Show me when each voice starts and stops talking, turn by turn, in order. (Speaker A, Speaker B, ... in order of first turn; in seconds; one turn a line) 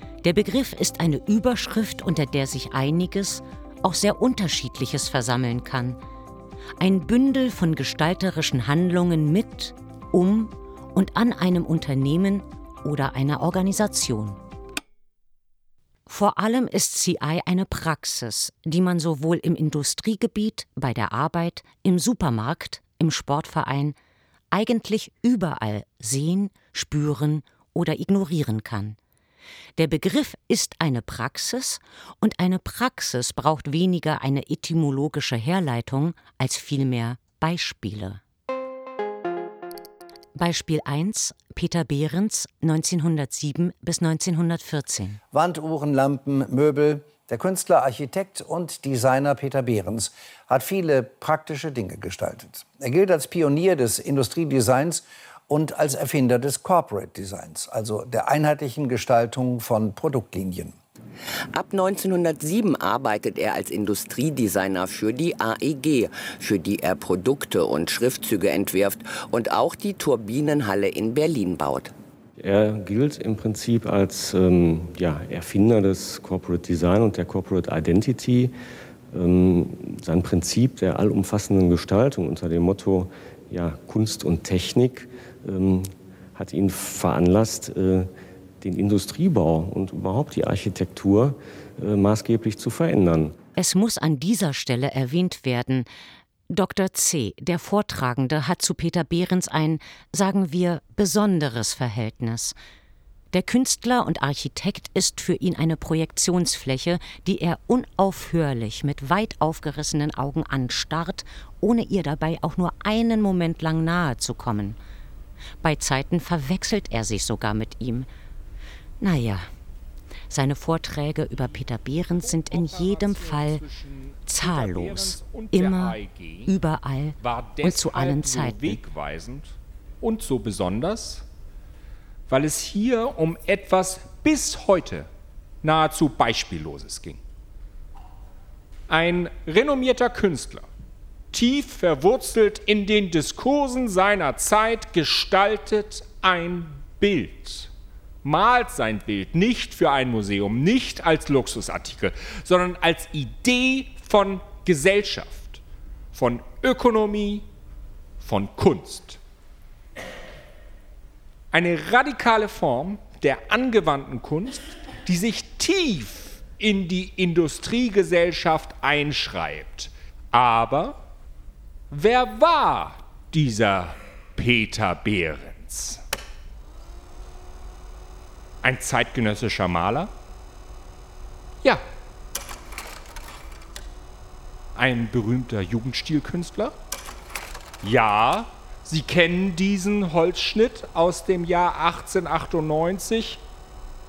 Speaker A: 0.2-6.0
Speaker A: 6.8-14.4
Speaker A: 16.1-23.9
Speaker A: 24.5-29.0
Speaker A: 29.8-38.2
Speaker A: 40.4-45.2
Speaker B: 45.3-60.8
Speaker C: 61.5-71.9
Speaker D: 72.4-93.3
Speaker A: 93.5-95.9
Speaker A: 96.5-102.5
Speaker A: 103.3-114.8
Speaker A: 115.6-118.1
Speaker A: 119.0-119.5
Speaker A: 120.3-123.6
Speaker E: 122.2-126.6
Speaker A: 124.3-128.8
Speaker E: 127.2-131.2
Speaker E: 132.3-135.1
Speaker E: 135.6-137.2
Speaker E: 138.9-140.7
Speaker E: 141.3-147.7
Speaker E: 148.2-155.6
Speaker E: 156.1-157.4
Speaker E: 158.2-159.2
Speaker E: 161.5-171.0
Speaker E: 171.9-176.0
Speaker E: 178.6-180.1
Speaker E: 184.7-186.8
Speaker E: 187.8-193.4